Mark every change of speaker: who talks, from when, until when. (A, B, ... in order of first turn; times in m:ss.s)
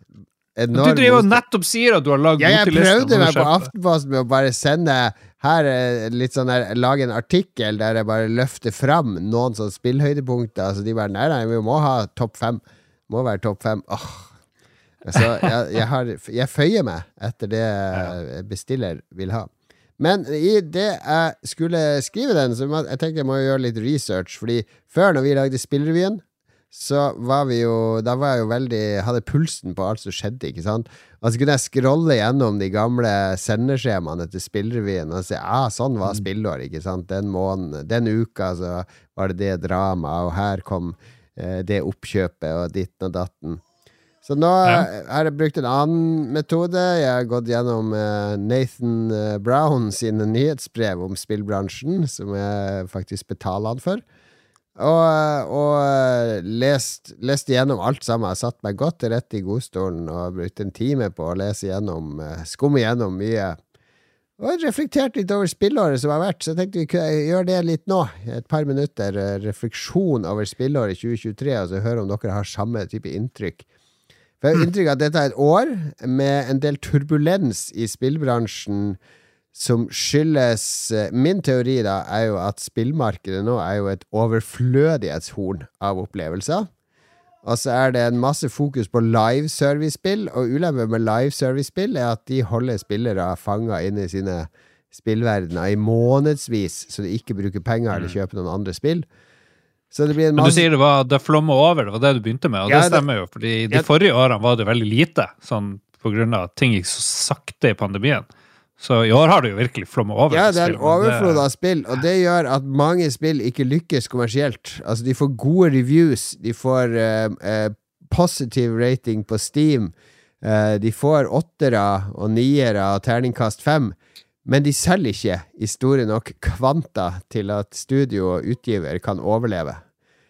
0:00.5-0:01.4 A
0:00.7-0:03.7 B
0:02.4-0:14.3 A
0:15.0-0:43.6 A
0:44.2-0:54.0 A
0:54.8-1:03.6 A
1:04.4-1:13.6 A
1:14.4-1:19.0 A
1:19.5-1:26.7 A
1:27.4-1:39.0 A
1:39.9-1:40.6 A
1:40.4-1:48.3 B
1:42.7-1:43.0 A
1:48.8-1:51.4 B
1:50.3-2:03.9 A
2:04.4-2:09.8 A